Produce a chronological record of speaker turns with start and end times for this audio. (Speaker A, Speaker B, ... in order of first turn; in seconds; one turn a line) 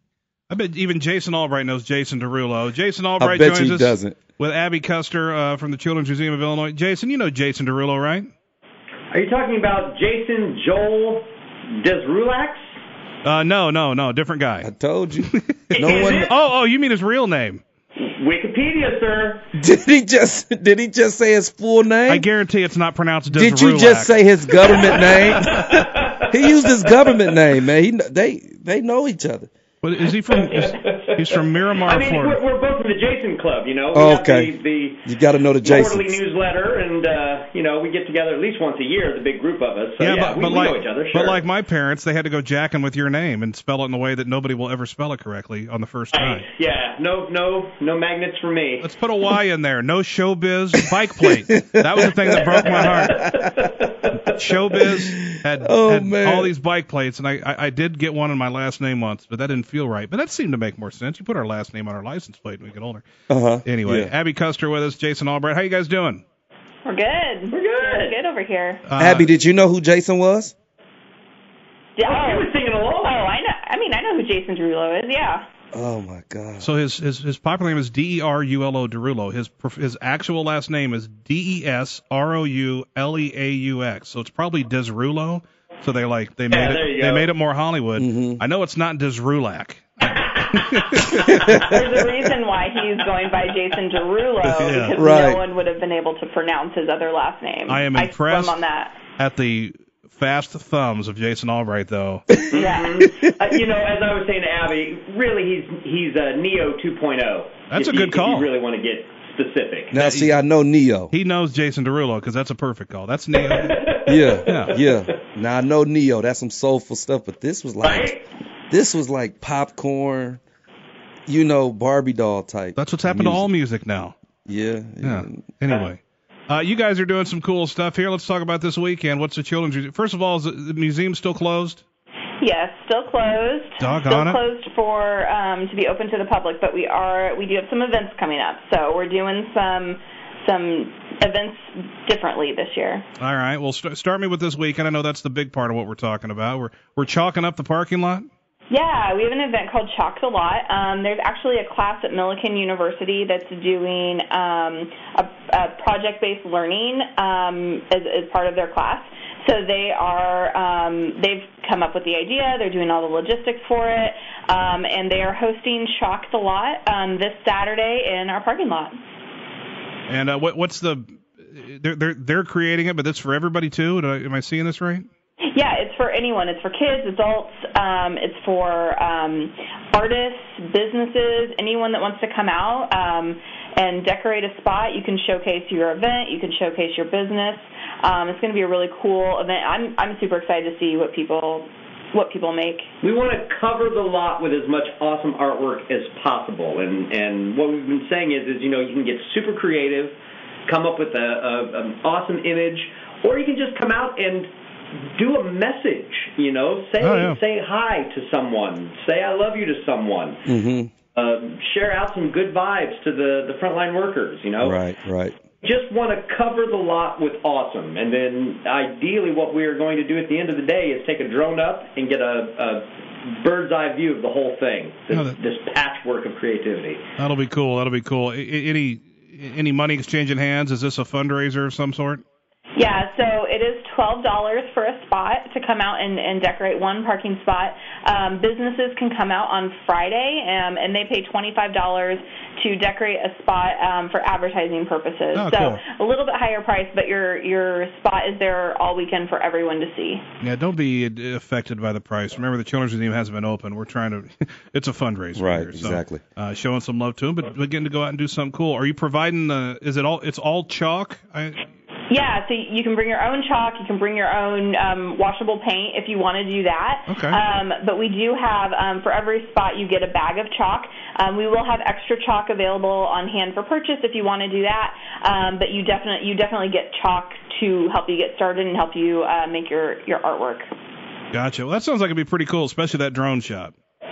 Speaker A: 0.5-8.3
Speaker B: 3.2-4.2
Speaker C: 9.1-12.6
Speaker A: 13.2-14.7
Speaker B: 14.6-16.3
Speaker A: 15.2-17.6
Speaker C: 15.7-16.4
Speaker C: 18.0-19.5
Speaker B: 19.5-22.3
Speaker A: 22.1-24.2
Speaker B: 23.3-29.5
Speaker C: 24.8-27.1
Speaker A: 29.8-32.4
Speaker C: 30.3-31.2
Speaker C: 31.9-35.1
Speaker B: 33.9-34.5
Speaker B: 35.0-36.2
Speaker C: 35.6-41.4
Speaker A: 40.0-46.5
Speaker C: 46.1-48.9
Speaker A: 48.8-53.2
Speaker B: 51.2-53.7
Speaker C: 52.4-54.2
Speaker A: 54.2-63.1
Speaker B: 54.9-56.5
Speaker B: 63.3-64.1
Speaker A: 63.6-66.2
Speaker D: 66.8-68.8
Speaker C: 67.5-68.2
Speaker A: 68.9-69.3
Speaker B: 69.0-70.5
Speaker D: 72.0-75.5
Speaker C: 72.0-73.2
Speaker B: 75.7-76.7
Speaker A: 76.6-91.6
Speaker C: 86.5-87.3
Speaker B: 88.0-88.4
Speaker C: 90.2-91.7
Speaker D: 91.5-99.0
Speaker C: 92.8-93.0
Speaker A: 94.4-95.0
Speaker B: 94.9-95.4
Speaker A: 97.7-98.6
Speaker A: 99.2-102.4
Speaker D: 102.5-103.1
Speaker C: 102.5-109.9
Speaker A: 107.7-108.5
Speaker B: 109.9-111.1
Speaker A: 109.9-110.4
Speaker A: 111.1-114.8
Speaker C: 113.3-114.8
Speaker B: 114.1-118.2
Speaker C: 117.8-118.2
Speaker B: 118.7-120.4
Speaker B: 121.3-123.5
Speaker A: 122.8-124.2
Speaker B: 124.5-125.5
Speaker A: 125.0-131.8
Speaker D: 132.4-143.1
Speaker A: 133.8-134.4
Speaker A: 143.2-148.3
Speaker D: 148.7-168.9
Speaker A: 170.1-175.1
Speaker D: 175.5-192.9
Speaker C: 193.0-200.2
Speaker C: 200.7-210.4
Speaker A: 207.0-207.4
Speaker B: 210.5-210.9
Speaker C: 211.2-214.8
Speaker B: 214.6-215.4
Speaker C: 215.6-227.0
Speaker A: 225.1-225.4
Speaker A: 227.2-232.2
Speaker D: 232.8-250.2
Speaker A: 245.3-245.8
Speaker A: 250.4-261.6
Speaker B: 255.4-256.2
Speaker D: 262.1-280.7
Speaker A: 267.1-267.4
Speaker A: 281.3-283.7